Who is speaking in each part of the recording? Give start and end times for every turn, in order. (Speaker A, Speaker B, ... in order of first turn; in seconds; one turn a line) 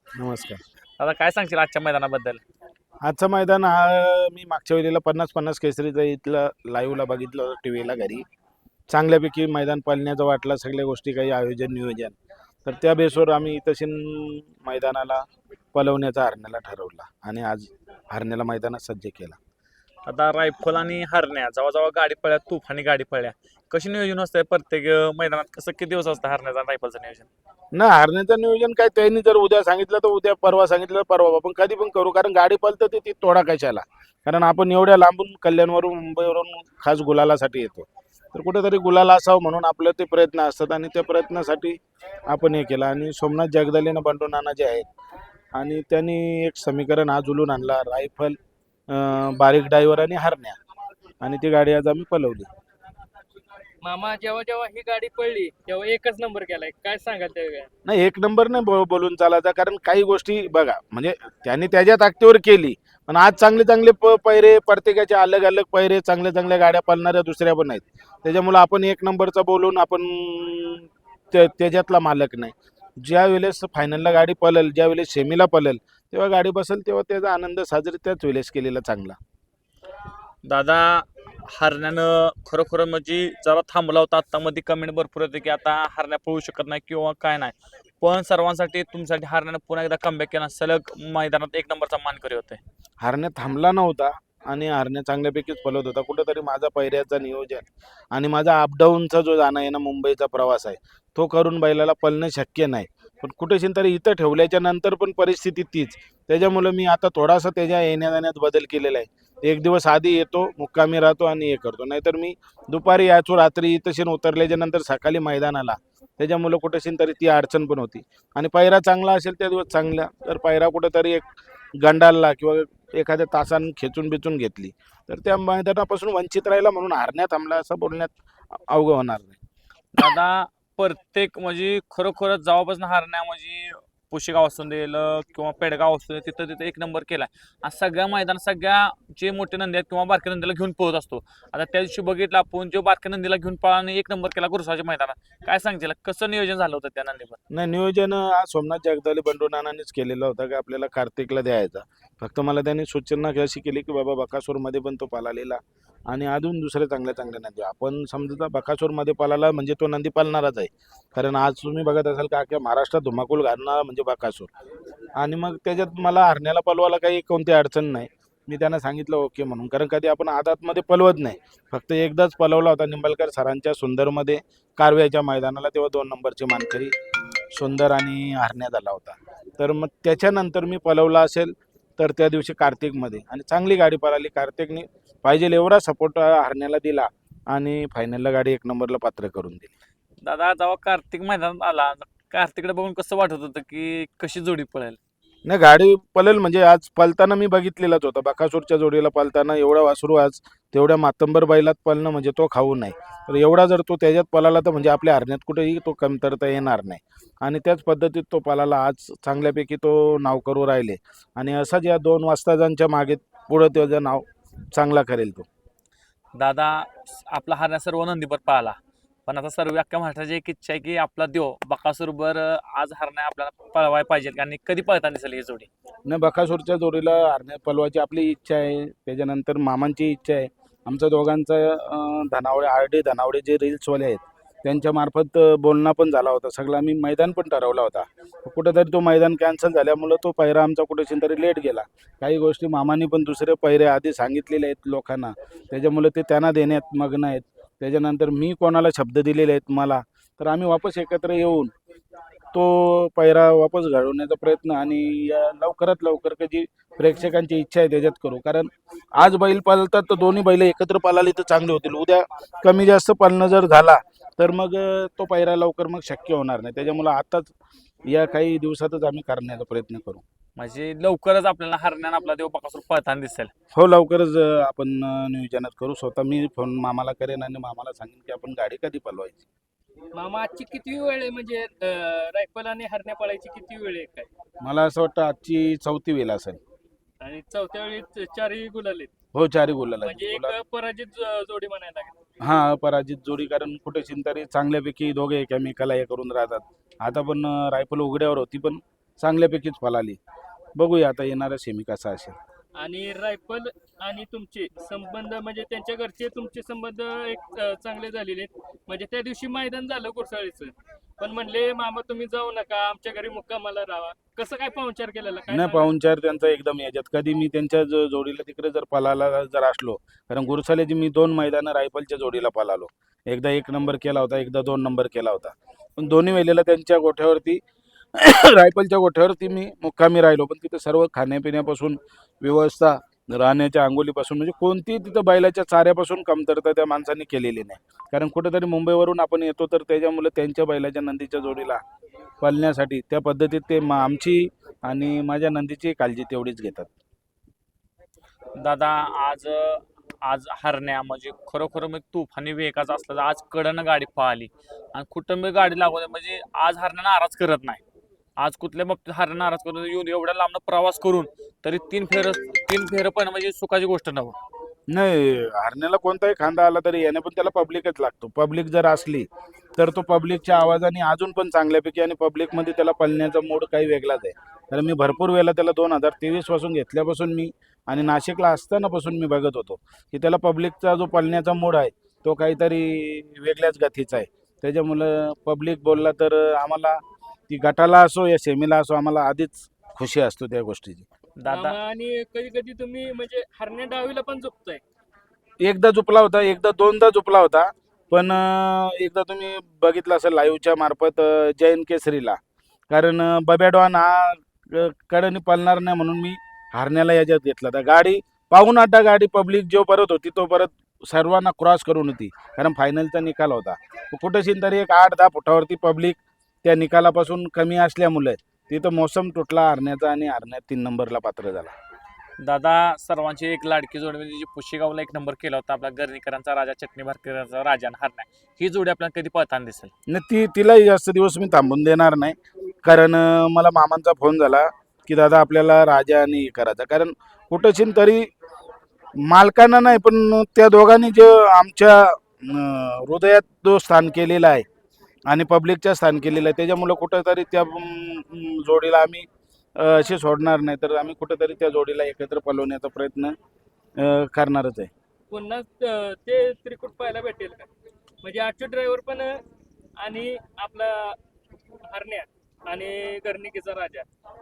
Speaker A: 0.1-0.6
Speaker B: 1.0-2.4
Speaker A: 3.0-8.2
Speaker A: 8.9-19.4
Speaker B: 20.1-27.3
Speaker A: 27.7-41.8
Speaker A: 42.3-44.9
Speaker A: 45.5-48.4
Speaker A: 48.9-50.6
Speaker A: 51.2-52.5
Speaker C: 53.8-57.7
Speaker A: 57.9-79.2
Speaker B: 80.4-92.6
Speaker A: 93.0-121.2
Speaker A: 121.8-129.4
Speaker B: 129.9-147.4
Speaker A: 147.5-164.5
Speaker A: 165.2-176.9
Speaker A: 177.5-189.7
Speaker B: 190.2-195.0
Speaker A: 195.5-215.5
Speaker B: 216.3-225.7
Speaker A: 226.1-251.7
Speaker A: 252.5-267.5
Speaker A: 268.1-270.2
Speaker B: 270.6-273.5
Speaker A: 273.7-279.4
Speaker C: 280.1-284.3
Speaker A: 284.6-286.6
Speaker C: 287.2-289.1
Speaker A: 289.3-290.5
Speaker C: 290.0-292.2
Speaker A: 292.4-300.2
Speaker A: 300.8-302.4
Speaker C: 302.8-315.9
Speaker A: 315.5-327.6
Speaker A: 328.1-341.8
Speaker A: 342.4-346.9
Speaker B: 348.6-357.8
Speaker B: 358.4-364.4
Speaker A: 364.9-387.0
Speaker A: 387.5-391.1
Speaker B: 391.4-391.8
Speaker C: 391.5-394.8
Speaker A: 395.6-402.4
Speaker A: 402.9-421.7
Speaker B: 422.4-429.9
Speaker A: 430.1-438.3
Speaker A: 439.2-444.6
Speaker A: 445.3-453.4
Speaker A: 454.0-454.9
Speaker C: 455.3-457.7
Speaker C: 458.2-459.4
Speaker C: 460.0-461.2
Speaker C: 461.9-464.1